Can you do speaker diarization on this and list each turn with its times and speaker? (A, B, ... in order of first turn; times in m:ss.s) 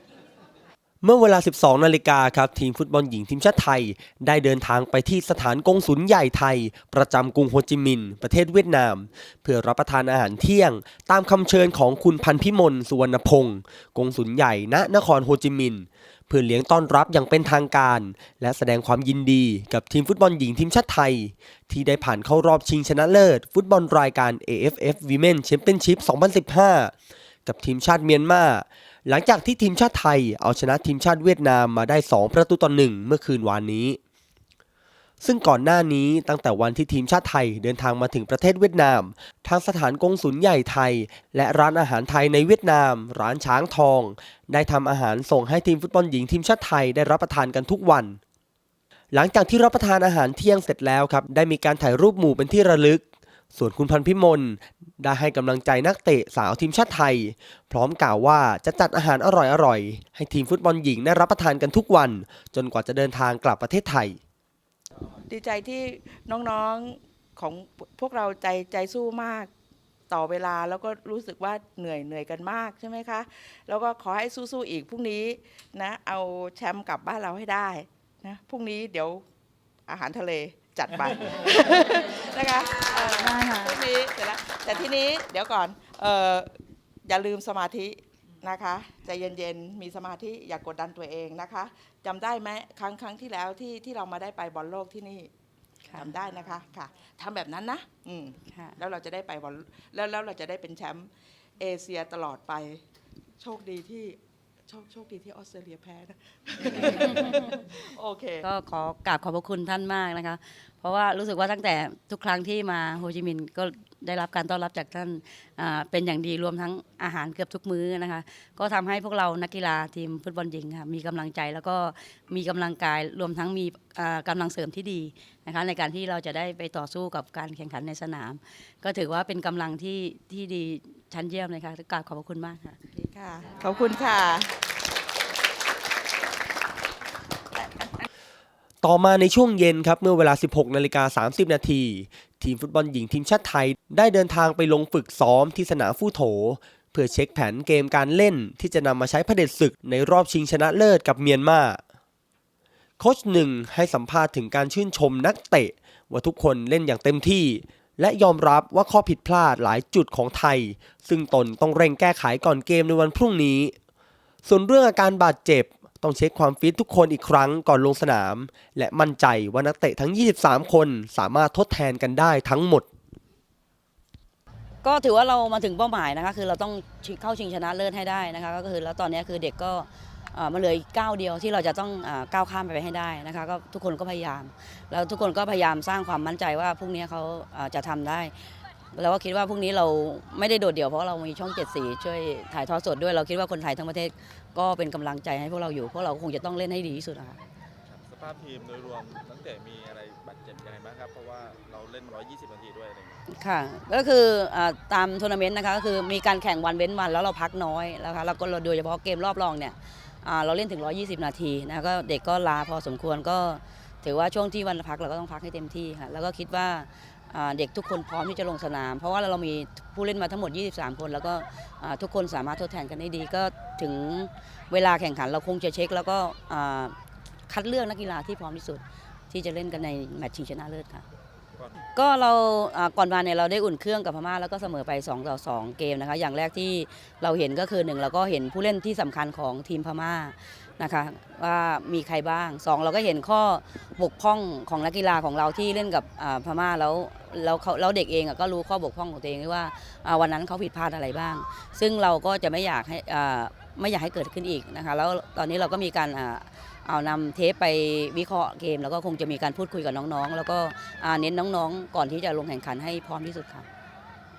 0:01.0-0:26.9 A
0:27.4-0:34.0 A
0:35.2-0:48.2 A
0:49.1-0:53.0 A
0:53.5-1:04.2 A
1:05.3-1:09.5 B
1:10.1-1:19.2 B
1:19.9-1:35.3 B
1:23.2-1:23.8 C
1:35.9-1:42.8 B
1:43.4-1:48.4 B
1:48.4-2:12.8 C
2:12.9-2:14.6 B
2:18.8-2:31.8 A
2:33.0-2:43.7 A
2:44.4-2:52.8 A
2:54.8-3:08.3 C
3:08.9-3:17.4 C
3:17.9-3:23.2 D
3:23.3-3:46.9 C
3:47.5-3:51.0 C
3:51.6-3:51.8 D
3:51.9-4:23.6 C